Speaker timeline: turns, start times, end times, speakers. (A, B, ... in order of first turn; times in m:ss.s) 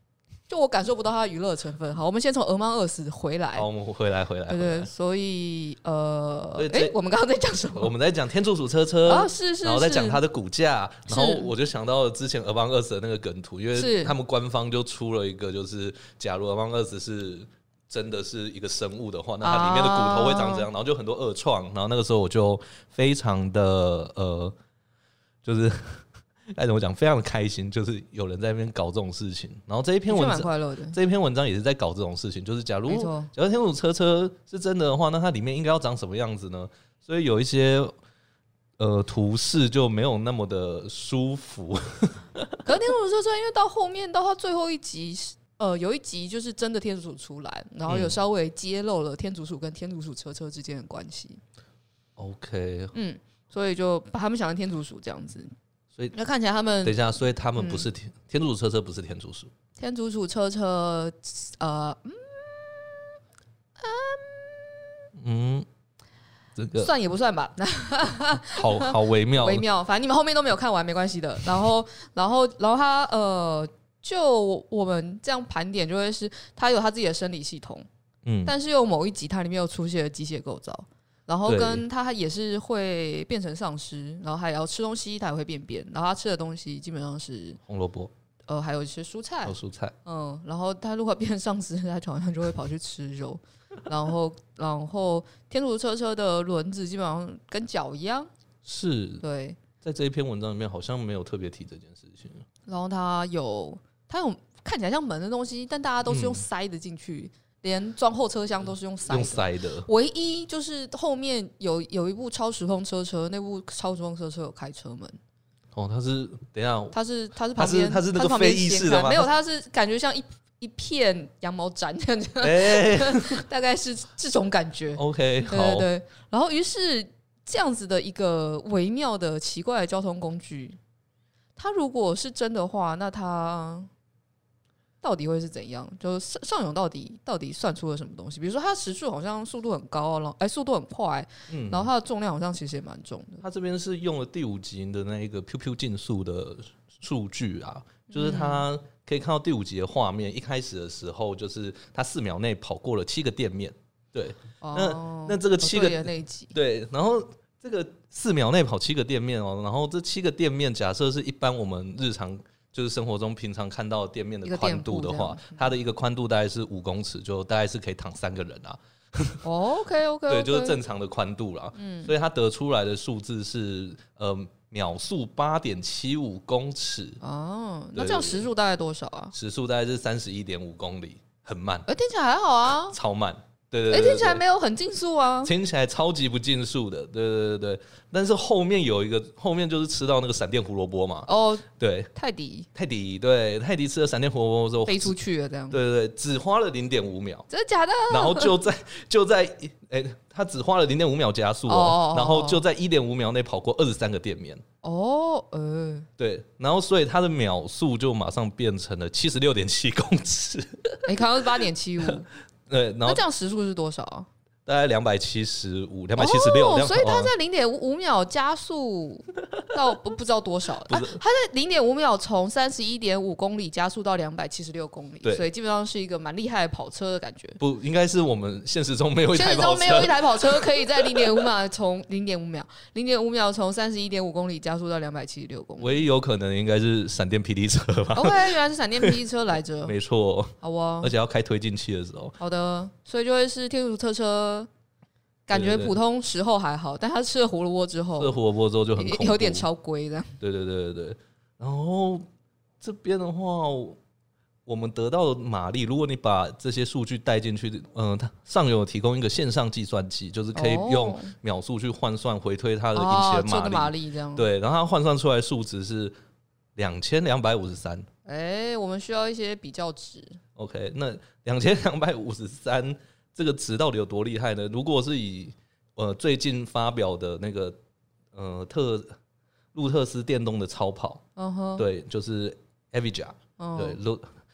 0:00.5-0:03.6 A
0:03.5-0:04.9 B
0:04.5-0:07.9 A
0:06.6-0:06.9 B
0:07.8-0:24.6 B
0:09.1-0:10.2 A
0:11.1-0:11.5 A
0:13.8-0:14.1 A
0:19.4-0:20.7 A
0:25.4-0:37.9 B
0:30.1-0:31.0 A
0:32.9-0:33.3 A
0:38.8-0:42.6 B
0:42.6-0:51.4 A
0:47.9-0:48.2 B
0:52.2-0:52.9 B
0:52.9-0:55.5 A
0:56.1-0:57.0 A
0:56.8-0:59.5 B
0:57.6-0:57.9 A
0:59.8-1:03.2 A
1:03.8-1:05.0 A
1:05.2-1:05.6 B
1:06.6-1:06.9 B
1:06.8-1:17.8 A
1:08.5-1:09.6 B
1:18.2-1:18.5 B
1:18.4-1:27.6 A
1:21.4-1:21.8 B
1:27.7-1:28.1 B
1:28.5-1:38.3 A
1:29.4-1:29.9 B
1:38.6-1:39.2 B
1:39.2-1:39.6 A
1:39.8-1:42.4 B
1:42.7-1:55.2 A
1:46.1-1:46.4 B
1:49.1-1:49.9 B
1:55.7-1:56.9 B
1:56.9-2:10.8 A
1:57.6-1:59.3 B
2:02.4-2:03.4 B
2:05.0-2:05.9 B
2:11.6-2:13.9 A
2:15.0-2:23.4 A
2:21.5-2:21.9 B
2:23.4-2:49.4 B
2:28.1-2:28.6 A
2:34.6-2:36.5 A
2:44.4-2:45.6 A
2:49.4-2:50.8 A
2:50.3-2:57.2 B
2:51.8-2:52.1 A
2:57.2-2:59.3 A
2:57.9-2:58.5 B
2:59.3-3:01.9 B
3:01.9-3:03.0 A
3:02.9-3:04.4 B
3:03.9-3:05.5 A
3:05.4-3:12.1 B
3:11.2-3:12.7 A
3:12.7-3:15.1 B
3:14.8-3:15.8 A
3:15.7-3:17.5 B
3:17.5-3:18.5 A
3:18.1-3:24.6 B
3:21.7-3:22.6 A
3:24.8-3:26.1 A
3:26.2-3:31.2 B
3:31.0-3:32.3 A
3:32.7-3:33.2 B
3:33.1-3:34.3 A
3:34.6-3:37.3 B
3:36.2-3:47.6 A
3:40.9-3:41.2 B
3:47.6-3:51.5 B
3:49.3-3:56.0 A
3:55.8-3:59.2 B
3:58.1-3:59.9 A
3:59.8-4:02.4 B
4:00.6-4:01.1 A
4:02.4-4:04.7 A
4:05.5-4:08.4 A
4:05.5-4:06.0 B
4:08.2-4:09.6 B
4:09.0-4:10.4 A
4:10.4-4:12.2 B
4:12.8-4:14.0 B
4:14.6-4:26.2 B
4:20.5-4:21.3 A
4:22.9-4:24.4 A
4:26.8-4:28.1 B
4:28.2-4:30.4 A
4:30.6-4:37.8 B
4:38.3-4:39.1 B
4:39.7-4:41.2 B
4:41.4-4:41.8 A
4:41.8-4:44.3 B
4:43.6-4:44.0 A